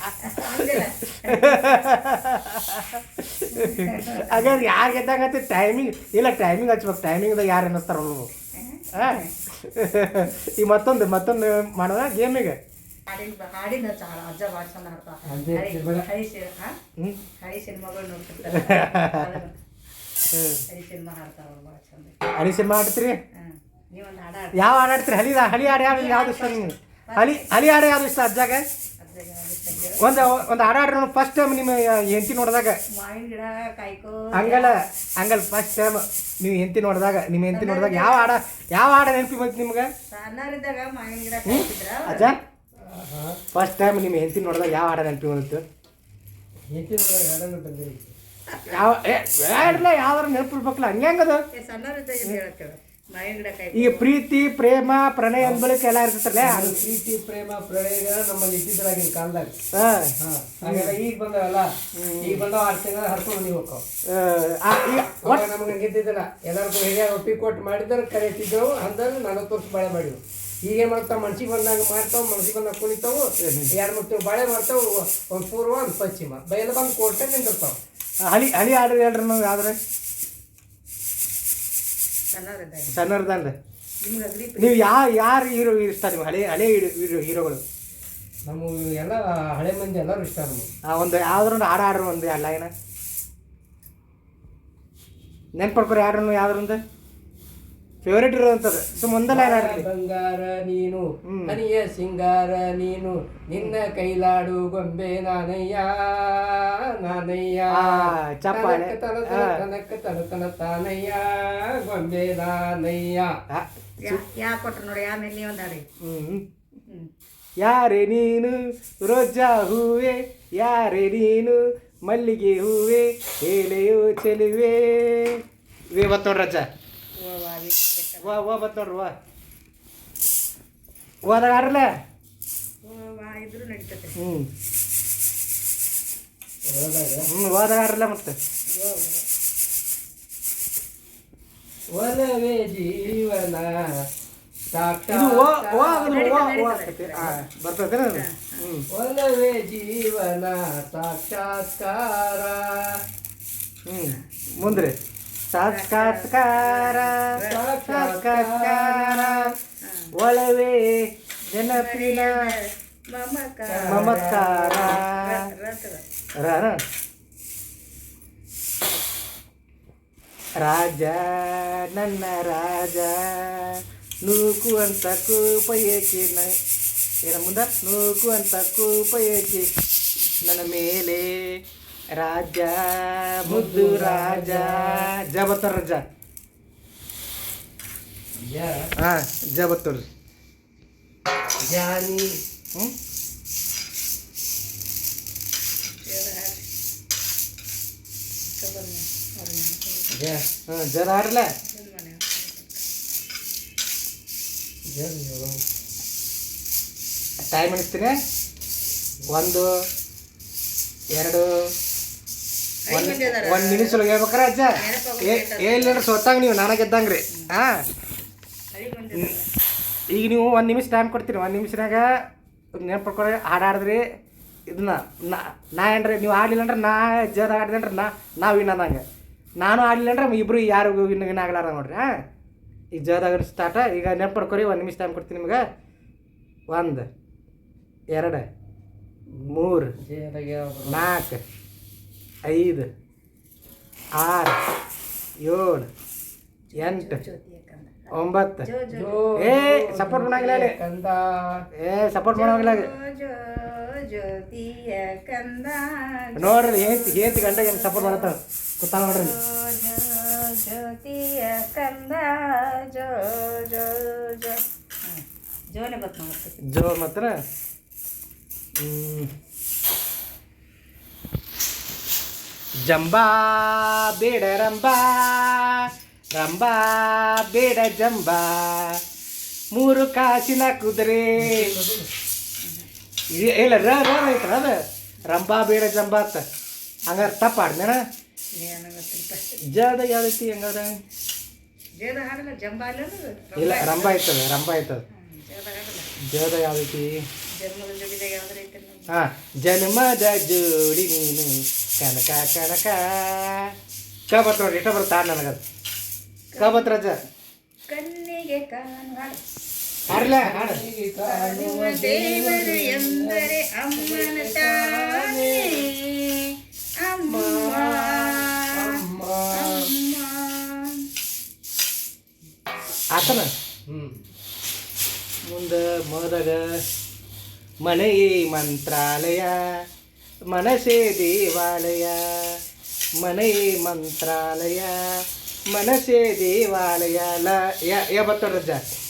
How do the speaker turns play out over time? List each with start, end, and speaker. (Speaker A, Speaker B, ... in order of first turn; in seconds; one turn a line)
Speaker A: 0.2-1.8
Speaker B: 1.2-8.3
Speaker A: 3.5-4.6
Speaker A: 8.6-9.3
Speaker B: 8.9-12.6
Speaker A: 13.1-16.7
Speaker C: 15.3-16.1
Speaker A: 17.4-19.5
Speaker B: 18.5-19.2
Speaker B: 20.3-20.6
Speaker A: 20.7-22.1
Speaker B: 22.4-23.2
Speaker A: 23.4-24.6
Speaker B: 24.6-28.6
Speaker A: 25.5-27.5
Speaker A: 29.0-30.3
Speaker B: 30.0-32.8
Speaker A: 32.9-34.7
Speaker B: 34.3-39.9
Speaker A: 37.5-38.3
Speaker A: 40.1-42.3
Speaker B: 41.5-42.4
Speaker C: 42.8-43.4
Speaker B: 43.5-45.6
Speaker C: 46.7-48.1
Speaker B: 48.7-51.4
Speaker A: 51.5-54.1
Speaker B: 53.7-56.8
Speaker C: 55.4-55.6
Speaker C: 56.4-59.5
Speaker B: 59.7-60.1
Speaker C: 60.2-63.8
Speaker B: 60.6-61.0
Speaker B: 62.0-62.4
Speaker B: 64.1-65.5
Speaker C: 65.2-77.8
Speaker B: 73.4-73.7
Speaker B: 78.2-79.8
Speaker A: 82.3-83.0
Speaker B: 82.9-83.5
Speaker A: 84.0-84.9
Speaker B: 84.6-87.6
Speaker C: 88.5-90.7
Speaker B: 90.9-92.7
Speaker B: 95.6-96.8
Speaker B: 98.0-99.8
Speaker C: 99.3-113.3
Speaker B: 101.3-101.6
Speaker B: 107.8-109.5
Speaker B: 113.5-114.2
Speaker A: 114.0-115.8
Speaker B: 116.0-116.4
Speaker B: 117.6-126.7
Speaker A: 127.2-128.5
Speaker B: 128.2-129.1
Speaker B: 131.2-131.9
Speaker A: 132.8-134.2
Speaker B: 134.2-134.5
Speaker C: 136.7-137.3
Speaker B: 137.3-138.3
Speaker A: 138.7-139.2
Speaker C: 141.9-143.9
Speaker C: 144.7-146.3
Speaker B: 145.1-148.8
Speaker A: 145.9-147.4
Speaker A: 148.1-148.6
Speaker C: 148.9-153.0
Speaker B: 153.8-154.9
Speaker B: 155.5-157.3
Speaker A: 155.7-157.6
Speaker C: 157.4-159.5
Speaker B: 157.8-159.4
Speaker A: 159.8-160.1
Speaker B: 160.2-161.0
Speaker B: 161.5-162.3
Speaker A: 161.7-166.0
Speaker C: 163.7-164.6
Speaker B: 163.9-165.4
Speaker B: 166.4-166.8
Speaker B: 170.6-176.5
Speaker B: 177.3-179.7
Speaker B: 180.4-181.3
Speaker B: 182.2-186.0
Speaker C: 183.5-185.1
Speaker C: 188.4-188.9
Speaker B: 189.0-190.1
Speaker C: 191.6-192.3
Speaker A: 195.9-196.6
Speaker A: 198.5-200.1
Speaker C: 200.1-200.4
Speaker B: 200.7-201.5
Speaker A: 201.7-202.9
Speaker C: 204.9-205.6
Speaker B: 207.5-208.2
Speaker B: 209.3-209.7
Speaker B: 211.1-211.5
Speaker A: 212.8-214.0
Speaker B: 212.9-217.8
Speaker A: 214.8-216.1
Speaker A: 218.7-219.5
Speaker B: 220.1-222.1
Speaker B: 222.8-224.0
Speaker B: 224.7-229.0
Speaker B: 229.6-232.1
Speaker B: 232.9-235.6
Speaker B: 236.7-237.1
Speaker B: 238.1-238.5
Speaker C: 239.3-241.1
Speaker B: 239.5-239.9
Speaker B: 240.9-241.4
Speaker B: 242.5-242.9
Speaker B: 244.2-244.6
Speaker B: 245.4-245.9
Speaker A: 246.7-248.1
Speaker B: 246.8-247.2
Speaker B: 248.1-248.7
Speaker A: 248.6-249.2
Speaker C: 248.9-251.6
Speaker B: 249.4-250.7
Speaker B: 251.8-252.9
Speaker A: 252.3-258.3
Speaker B: 256.4-259.4
Speaker A: 259.0-266.6
Speaker B: 266.7-267.3
Speaker B: 268.8-269.3
Speaker B: 272.9-279.0
Speaker B: 279.7-281.6
Speaker C: 281.4-282.1
Speaker A: 282.6-282.9
Speaker B: 283.3-286.4
Speaker B: 287.1-288.0
Speaker A: 288.6-289.6
Speaker B: 289.7-290.9
Speaker A: 292.0-294.2
Speaker B: 293.6-295.0
Speaker A: 295.1-296.1
Speaker B: 296.3-297.1
Speaker A: 297.6-299.1
Speaker B: 299.1-303.7
Speaker B: 304.3-305.6
Speaker A: 306.5-306.9
Speaker B: 306.6-307.2
Speaker A: 307.9-309.4
Speaker B: 310.1-310.8
Speaker C: 310.1-315.9
Speaker A: 311.2-319.0
Speaker C: 317.3-319.9
Speaker A: 319.5-321.0
Speaker B: 323.1-323.5
Speaker C: 323.2-324.2
Speaker B: 325.4-326.6
Speaker B: 327.8-329.5
Speaker B: 330.5-332.6
Speaker B: 333.2-334.9
Speaker B: 335.7-338.8